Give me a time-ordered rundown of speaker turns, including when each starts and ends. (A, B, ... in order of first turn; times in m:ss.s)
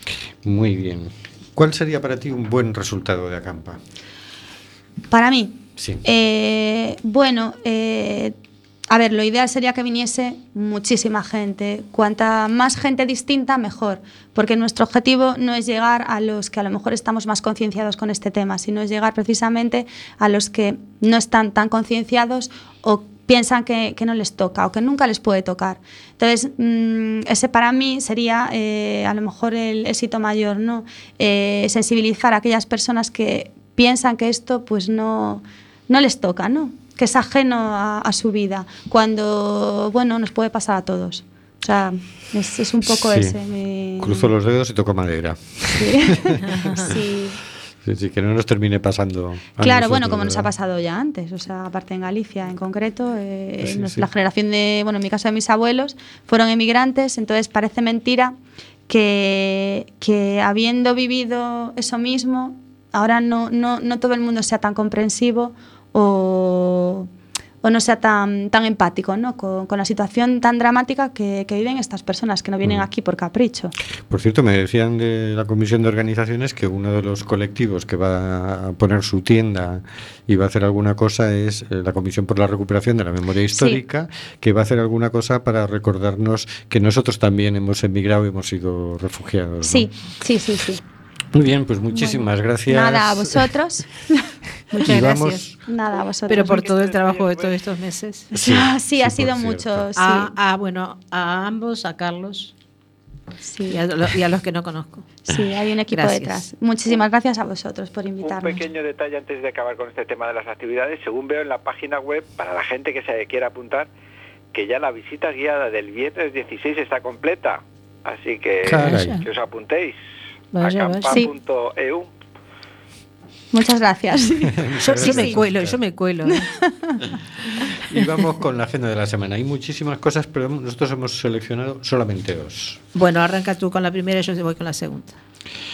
0:00.4-0:03.8 A
0:05.1-0:08.4 B
0:05.8-0:06.0 A
0:08.9-0:44.3 B
0:42.8-0:43.4 A
0:44.0-0:46.4 A
0:45.8-0:47.4 B
0:47.8-0:50.5 A
0:49.6-0:58.4 B
0:53.6-0:54.1 A
0:58.9-1:07.1 B
1:07.6-1:13.7 B
1:14.1-1:29.9 A
1:23.5-1:23.8 B
1:29.6-1:30.8 B
1:31.3-1:33.5 A
1:31.9-1:34.2 B
1:34.7-1:35.5 C
1:34.8-1:35.6 A
1:35.7-1:36.7 B
1:36.3-1:38.4 C
1:36.4-1:37.6 D
1:38.3-1:39.9 A
1:38.4-1:40.3 B
1:40.0-1:42.5 C
1:43.4-1:43.8 B
1:43.7-1:45.4 C
1:45.3-1:48.6 B
1:45.9-1:46.5 C
1:48.2-1:53.9 D
1:54.5-2:00.0 D
1:58.6-1:59.2 A
1:58.7-1:59.2 C
2:00.5-2:01.2 C
2:00.6-2:02.1 D
2:03.5-2:05.4 B
2:04.5-2:05.8 A
2:04.8-2:06.5 C
2:06.3-2:07.0 B
2:07.9-2:12.8 A
2:13.0-2:15.2 C